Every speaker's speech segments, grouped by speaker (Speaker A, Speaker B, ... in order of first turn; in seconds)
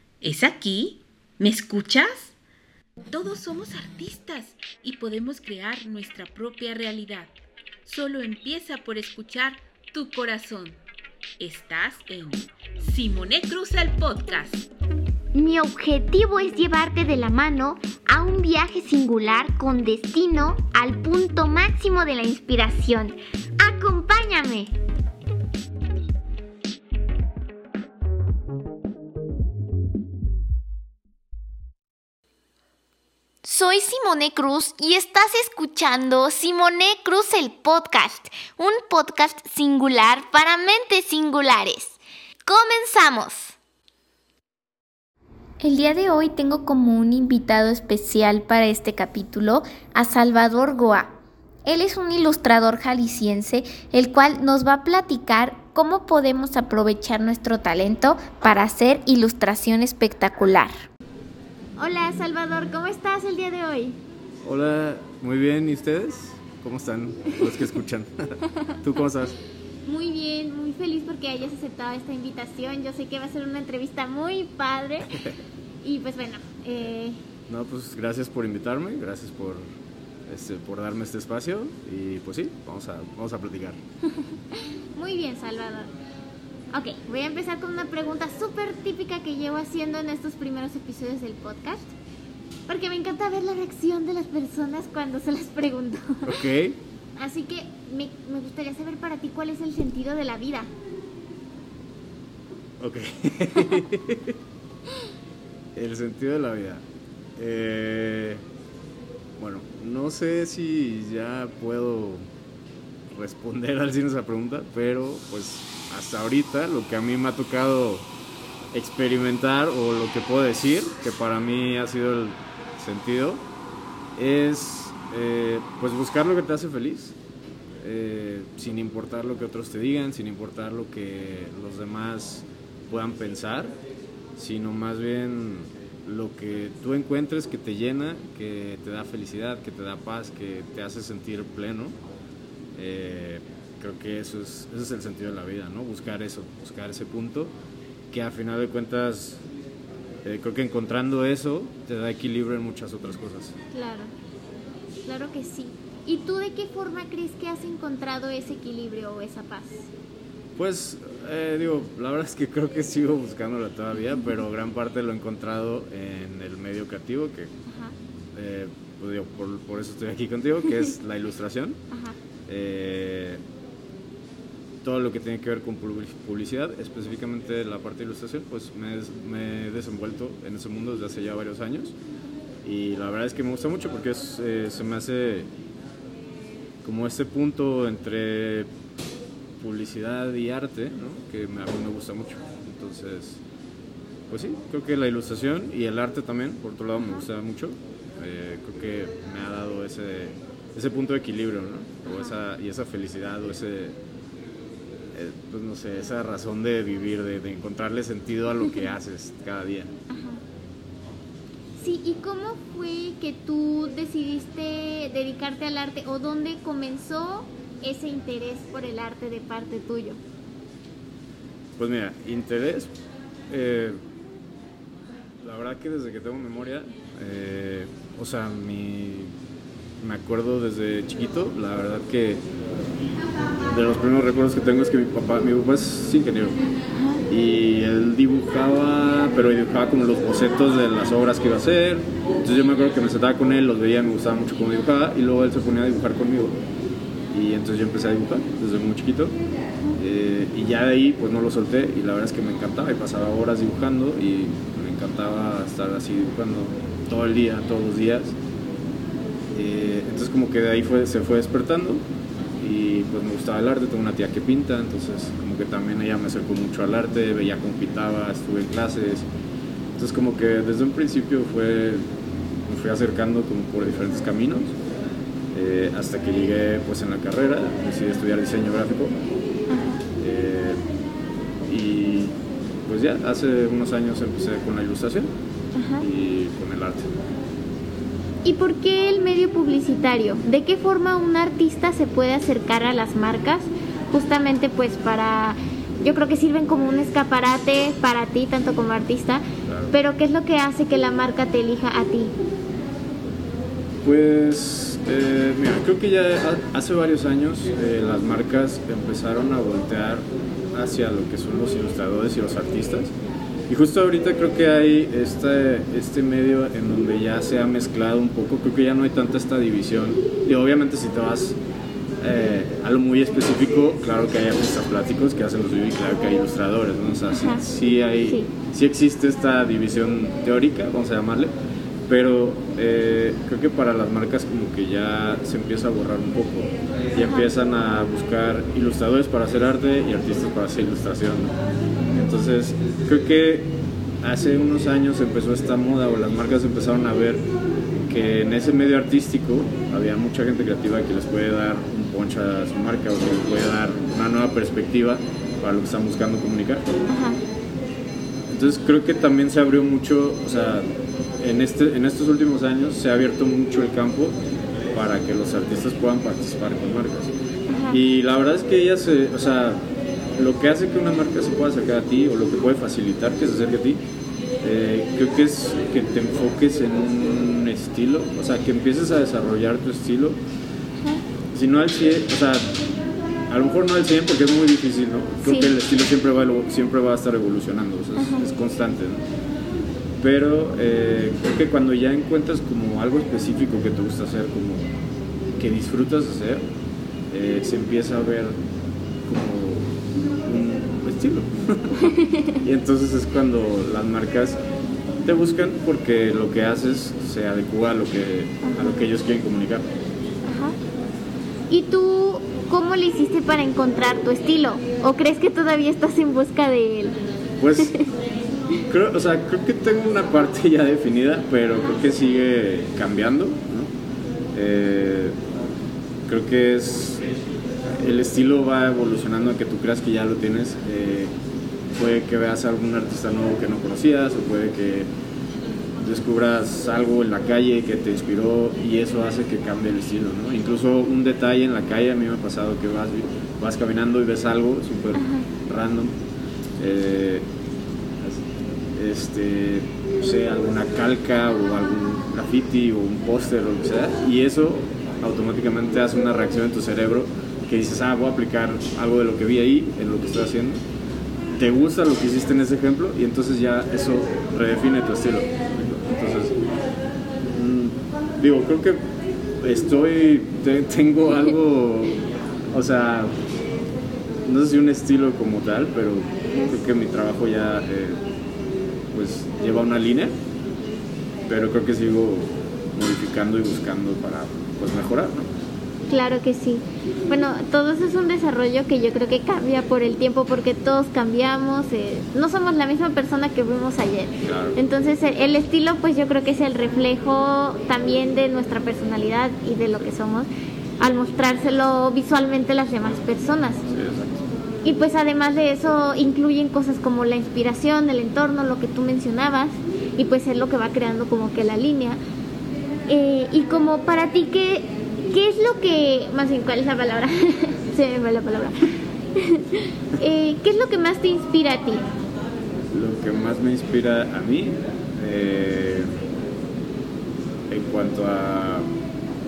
Speaker A: 0.2-2.3, 3.1-7.3, 7.8-10.8, 11.4-14.7
Speaker B: 15.3-24.7, 33.4-43.5, 45.6-51.1, 51.6-60.7, 61.8-64.0, 69.8-75.2, 75.8-77.2, 84.1-85.9, 86.7-91.9, 92.7-96.3, 97.2-100.7, 153.7-154.1, 155.1-159.9, 167.7-167.9, 170.7-170.9, 171.9-172.2, 197.0-197.2, 202.1-202.3, 210.1-210.4, 211.8-220.2, 236.9-237.2, 279.7-280.0, 285.7-286.1, 288.4-302.3, 327.3-327.6, 337.2-337.5, 357.1-357.4, 367.7-368.0, 385.4-385.7, 388.1-388.5, 402.0-402.6, 408.6-409.0, 410.4-410.7, 411.7-417.2, 417.8-418.1, 445.1-445.5, 486.1-500.5, 501.0-503.8, 504.8-512.2, 513.1-522.0
Speaker C: 64.4-69.3, 77.5-79.6, 80.3-83.8, 96.2-96.8, 102.8-104.3, 105.8-106.8, 107.4-108.4, 109.4-112.2, 113.1-118.1, 118.7-123.4, 124.2-127.2, 127.8-133.8, 134.4-142.0, 142.7-147.5, 148.1-149.4, 150.2-153.5, 160.6-167.5, 168.3-171.8, 172.5-173.4, 174.8-181.9, 182.6-185.5, 186.8-188.7, 189.6-193.4, 194.3-204.0, 205.1-209.9, 221.8-222.9, 223.5-224.0, 225.4-229.3, 230.0-232.4, 233.7-236.6, 237.3-246.6, 247.3-249.3, 250.0-258.4, 259.5-262.0, 262.6-269.3, 269.9-272.1, 272.6-274.7, 275.5-279.1, 280.2-280.8, 281.7-282.3, 282.9-285.3, 286.0-287.1, 299.6-299.9, 304.0-313.1, 313.7-321.6, 322.2-331.5, 332.1-341.6, 342.1-356.9, 358.5-360.8, 361.4-364.4, 364.9-367.3, 367.9-374.0, 374.6-380.4, 381.5-382.8, 383.5-389.2, 390.2-394.9, 395.6-396.6, 397.3-398.5, 399.2-404.6, 405.2-409.9, 417.6-417.9, 418.9-423.9, 424.5-425.4, 426.3-427.3, 427.8-431.3, 431.9-435.1, 436.0-446.1, 446.8-447.5, 448.9-460.8, 461.5-466.6, 467.5-469.0, 469.6-473.3, 474.4-478.2, 479.1-480.3, 481.5-485.5, 494.4-494.8, 503.9-504.4, 522.9-526.2, 527.7-528.9